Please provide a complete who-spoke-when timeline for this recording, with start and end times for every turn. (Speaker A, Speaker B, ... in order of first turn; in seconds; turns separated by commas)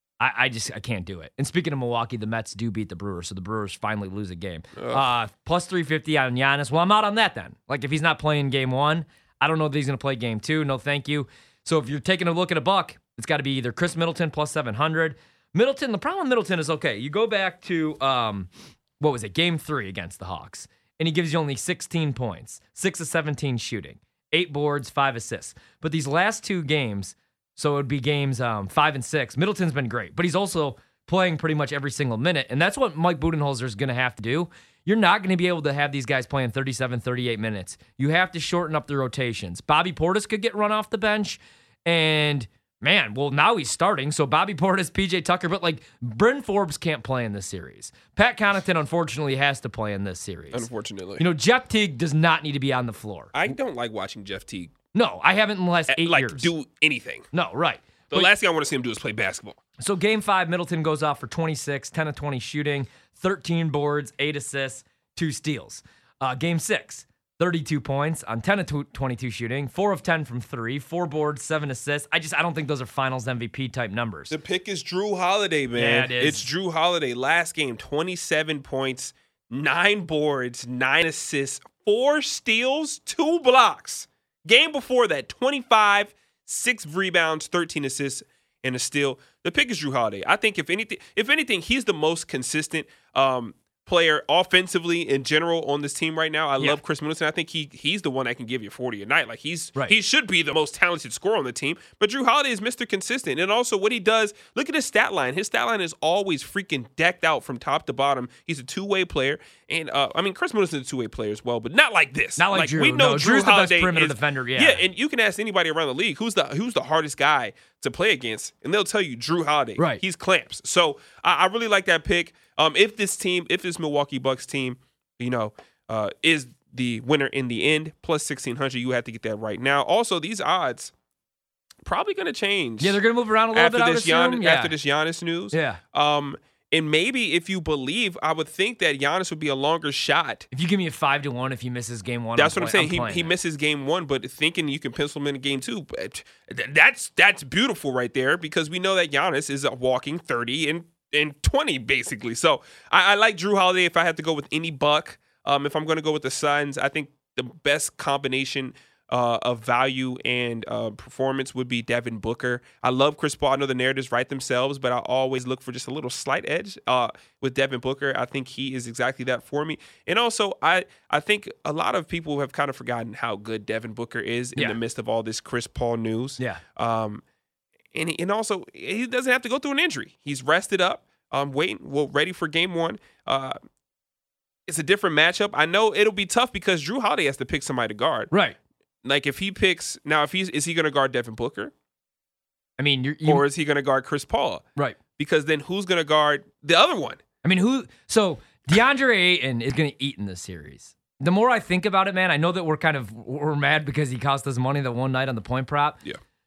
Speaker A: 0.2-50.7, Speaker B: 4.8-5.1, Speaker B: 50.5-51.3, Speaker A: 51.2-53.5, Speaker B: 53.3-54.7, Speaker A: 54.9-56.5, Speaker B: 55.9-57.3, Speaker A: 57.3-58.3, Speaker B: 58.1-59.6, Speaker A: 59.8-74.4, Speaker B: 74.3-130.9, Speaker A: 75.7-76.5, Speaker A: 112.4-114.8, Speaker A: 119.8-120.0, Speaker B: 131.8-133.0, Speaker A: 132.8-134.8, Speaker B: 133.5-140.5, Speaker A: 135.5-135.8, Speaker A: 140.5-143.3, Speaker B: 142.3-177.2, Speaker B: 177.9-183.6, Speaker B: 184.7-188.3, Speaker A: 188.3-188.6, Speaker B: 189.0-191.7, Speaker A: 192.8-193.4, Speaker B: 193.2-194.6, Speaker B: 195.2-197.2, Speaker A: 197.4-206.0